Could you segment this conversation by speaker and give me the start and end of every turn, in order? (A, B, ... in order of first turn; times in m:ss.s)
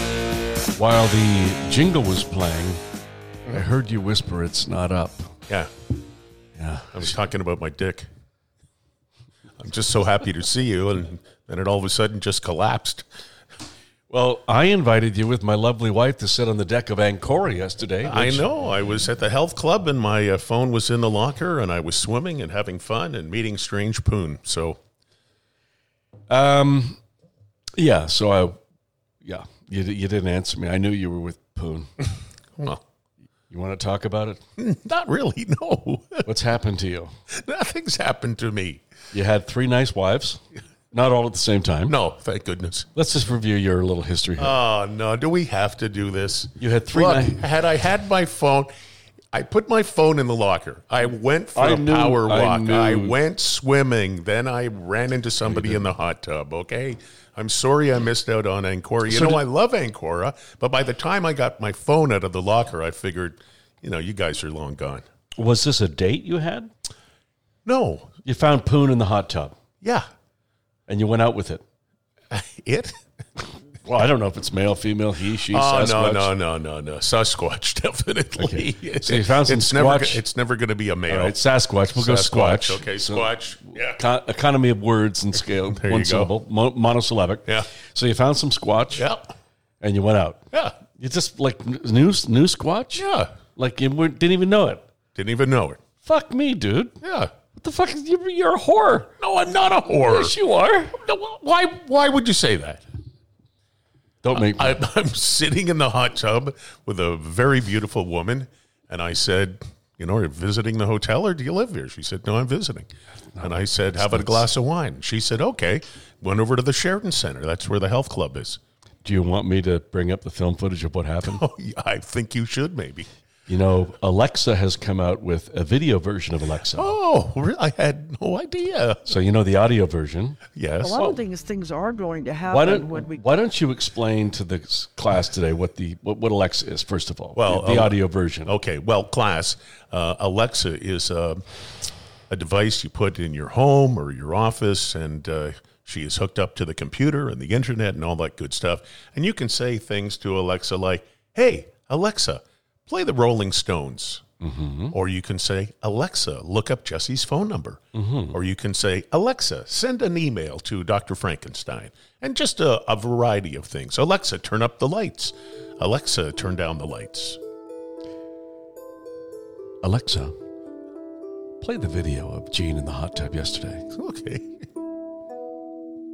0:00.7-0:02.8 A
0:03.5-0:05.3 A
0:06.6-0:07.1 A
0:06.9-0:08.1 B
0:09.6-0:13.1 B
0:14.1-0:18.5 A
0:18.0-0:24.8 B
0:26.3-0:27.0 A
0:27.8-0:28.6 A
0:29.2-0:31.9 A
0:33.5-0:34.4 A
0:34.6-0:36.3 B
0:36.2-0:37.1 A
0:37.3-0:38.8 B
0:39.1-0:40.4 A
0:40.9-0:42.0 A
0:41.9-0:42.9 B
0:43.0-0:44.6 A
0:44.4-0:48.7 B
0:46.6-0:47.5 A
0:49.3-1:05.0 B
0:51.6-0:53.2 A
0:55.4-0:56.0 A
0:59.1-0:59.4 A
1:05.4-1:06.7 A
1:07.7-1:08.1 B
1:08.2-1:09.6 A
1:10.9-1:11.6 A
1:12.3-1:13.0 B
1:13.8-1:16.3 A
1:15.4-1:21.4 B
1:18.4-1:20.2 A
1:21.1-1:29.1 A
1:21.9-1:24.1 B
1:25.5-1:26.3 B
1:29.0-1:29.3 B
1:29.8-1:30.4 A
1:31.0-1:34.9 A
1:33.0-1:33.3 B
1:35.2-1:35.8 B
1:36.0-1:37.0 A
1:37.0-1:37.3 B
1:37.6-1:39.1 A
1:39.2-1:40.3 B
1:40.1-1:40.9 A
1:41.0-1:42.8 B
1:44.2-1:44.8 A
1:44.3-1:58.6 B
1:53.4-1:54.5 A
1:59.0-2:01.4 A
2:01.2-2:03.1 B
2:03.5-2:06.9 A
2:06.7-2:09.2 B
2:09.1-2:10.4 A
2:10.6-2:11.0 B
2:10.8-2:13.3 C
2:10.9-2:11.2 A
2:12.5-2:18.5 A
2:17.4-2:21.4 B
2:22.3-2:34.2 B
2:34.4-2:35.0 A
2:34.9-2:37.8 B
2:37.9-2:38.4 A
2:38.3-2:47.4 B
2:49.8-2:50.3 A
2:51.6-2:53.8 A
2:53.9-2:54.4 B